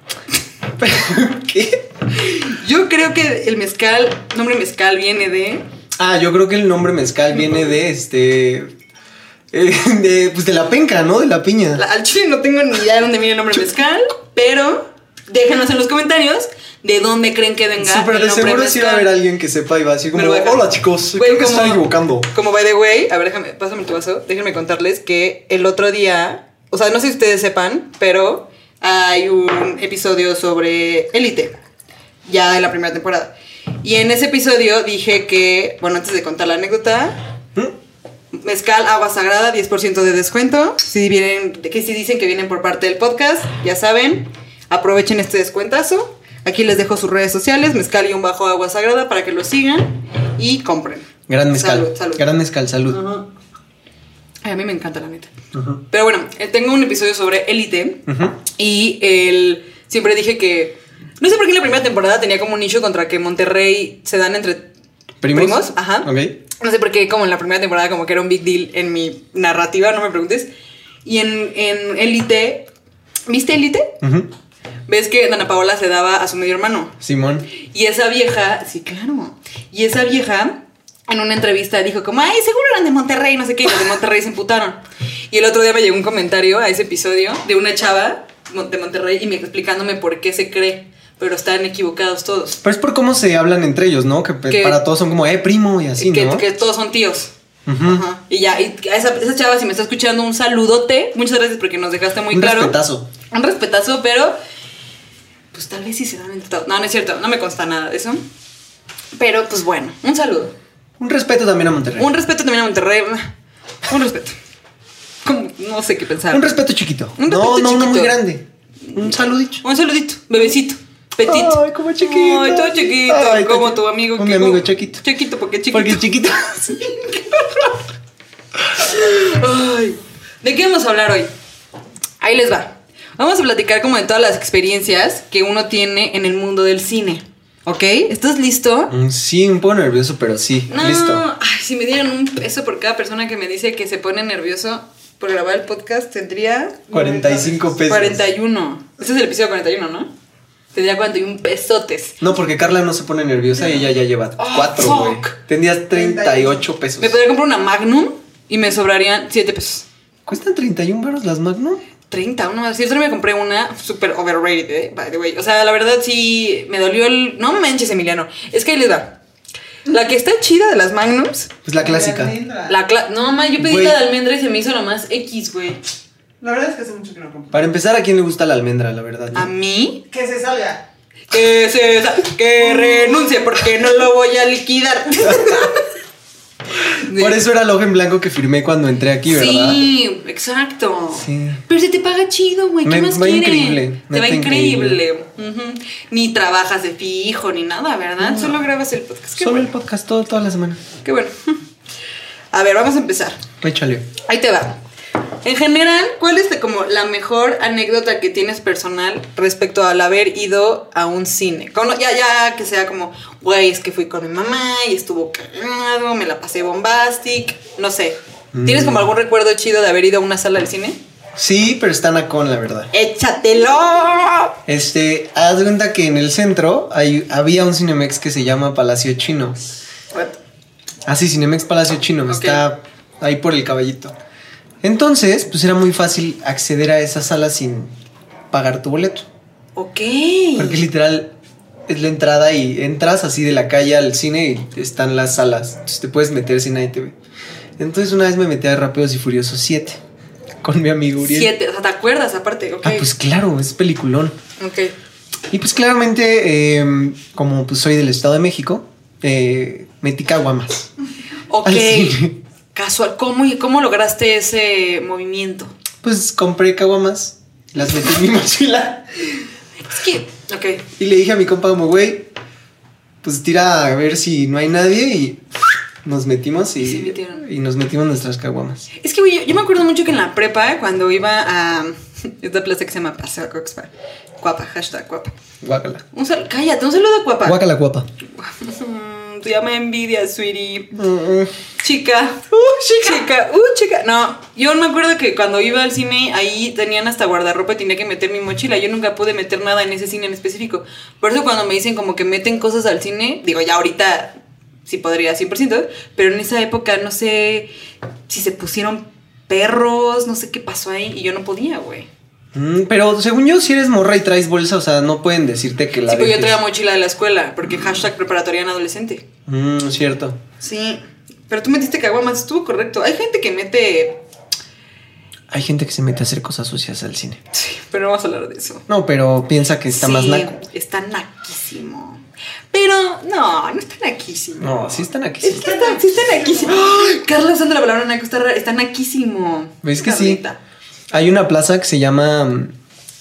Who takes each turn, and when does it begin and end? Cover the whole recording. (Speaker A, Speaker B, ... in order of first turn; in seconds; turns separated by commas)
Speaker A: 0.8-1.8, Speaker B: 2.2-5.6, Speaker A: 6.0-8.7, Speaker A: 9.5-11.8, Speaker B: 11.8-19.1, Speaker A: 17.8-22.3, Speaker B: 20.1-31.6, Speaker B: 32.3-37.2, Speaker B: 38.3-52.3, Speaker A: 51.3-53.0, Speaker B: 52.9-53.3, Speaker B: 54.4-55.3, Speaker A: 55.5-55.8, Speaker B: 55.9-64.7, Speaker A: 58.1-58.4, Speaker A: 65.2-66.3, Speaker B: 65.3-70.5, Speaker B: 71.0-72.7, Speaker B: 73.3-74.0, Speaker A: 74.0-74.3, Speaker B: 74.9-77.0, Speaker A: 77.0-77.5, Speaker B: 77.6-92.6, Speaker A: 92.6-96.5, Speaker B: 94.5-94.8, Speaker B: 96.0-102.8, Speaker A: 97.7-98.0, Speaker A: 102.3-103.1, Speaker B: 103.3-104.4, Speaker B: 105.5-108.2, Speaker B: 109.2-110.5, Speaker A: 111.0-112.1, Speaker B: 112.0-113.3, Speaker B: 113.8-114.3, Speaker B: 115.2-116.5, Speaker A: 116.3-119.6, Speaker B: 117.2-118.2, Speaker B: 118.9-126.1, Speaker A: 121.2-125.0, Speaker A: 125.7-126.7, Speaker B: 126.6-127.8, Speaker B: 128.8-131.3, Speaker B: 132.2-138.9, Speaker A: 138.9-141.2, Speaker B: 140.7-146.8, Speaker C: 146.9-147.7, Speaker A: 146.9-148.2, Speaker B: 147.9-150.1, Speaker B: 150.7-152.2, Speaker A: 152.2-157.2, Speaker B: 154.4-155.3, Speaker C: 155.9-156.6, Speaker B: 157.0-159.9, Speaker A: 160.3-161.8, Speaker B: 162.1-169.2, Speaker B: 169.9-171.5, Speaker A: 171.7-172.3, Speaker C: 171.8-172.8, Speaker B: 172.7-175.8, Speaker A: 173.6-174.0, Speaker C: 176.4-177.6, Speaker A: 177.5-179.5, Speaker B: 179.3-180.0, Speaker C: 180.1-180.9, Speaker B: 181.3-185.8, Speaker C: 182.7-183.5, Speaker A: 185.3-185.6, Speaker B: 187.0-187.4, Speaker A: 187.1-189.8, Speaker B: 189.3-199.7, Speaker A: 191.1-191.6, Speaker A: 192.8-195.0, Speaker A: 198.2-198.6, Speaker A: 199.4-200.8, Speaker B: 201.0-201.6, Speaker B: 202.5-203.4, Speaker A: 203.6-204.1, Speaker B: 204.2-204.8, Speaker B: 205.4-221.0, Speaker A: 218.5-219.1, Speaker A: 221.4-222.9, Speaker B: 222.9-224.6, Speaker A: 224.7-229.6, Speaker B: 230.1-230.4, Speaker A: 231.1-234.2, Speaker B: 232.3-232.6, Speaker A: 234.8-237.9, Speaker A: 238.5-239.3, Speaker B: 239.8-240.8, Speaker A: 240.6-241.3, Speaker A: 241.9-247.2, Speaker A: 247.8-250.0, Speaker A: 250.6-251.5, Speaker B: 251.2-253.1, Speaker A: 252.8-254.4, Speaker B: 254.6-254.9, Speaker A: 255.5-260.9, Speaker B: 261.5-262.2, Speaker A: 261.6-262.4, Speaker B: 262.7-265.7, Speaker A: 266.0-269.1, Speaker B: 269.9-270.8, Speaker A: 271.0-272.3, Speaker A: 273.2-275.4, Speaker A: 276.0-278.9, Speaker B: 276.8-277.4, Speaker B: 278.9-285.3, Speaker A: 285.6-286.0, Speaker B: 286.1-287.6, Speaker A: 287.4-288.1, Speaker B: 288.4-290.9, Speaker A: 290.9-291.5, Speaker B: 291.8-307.7, Speaker B: 308.3-312.1, Speaker A: 312.5-316.6, Speaker B: 316.1-319.3, Speaker A: 319.5-320.4, Speaker B: 320.6-324.2, Speaker A: 325.5-327.4, Speaker B: 327.5-328.9, Speaker A: 328.9-330.6, Speaker B: 329.9-340.6, Speaker A: 334.6-335.9, Speaker C: 335.6-336.8, Speaker A: 339.8-340.4, Speaker A: 341.1-342.7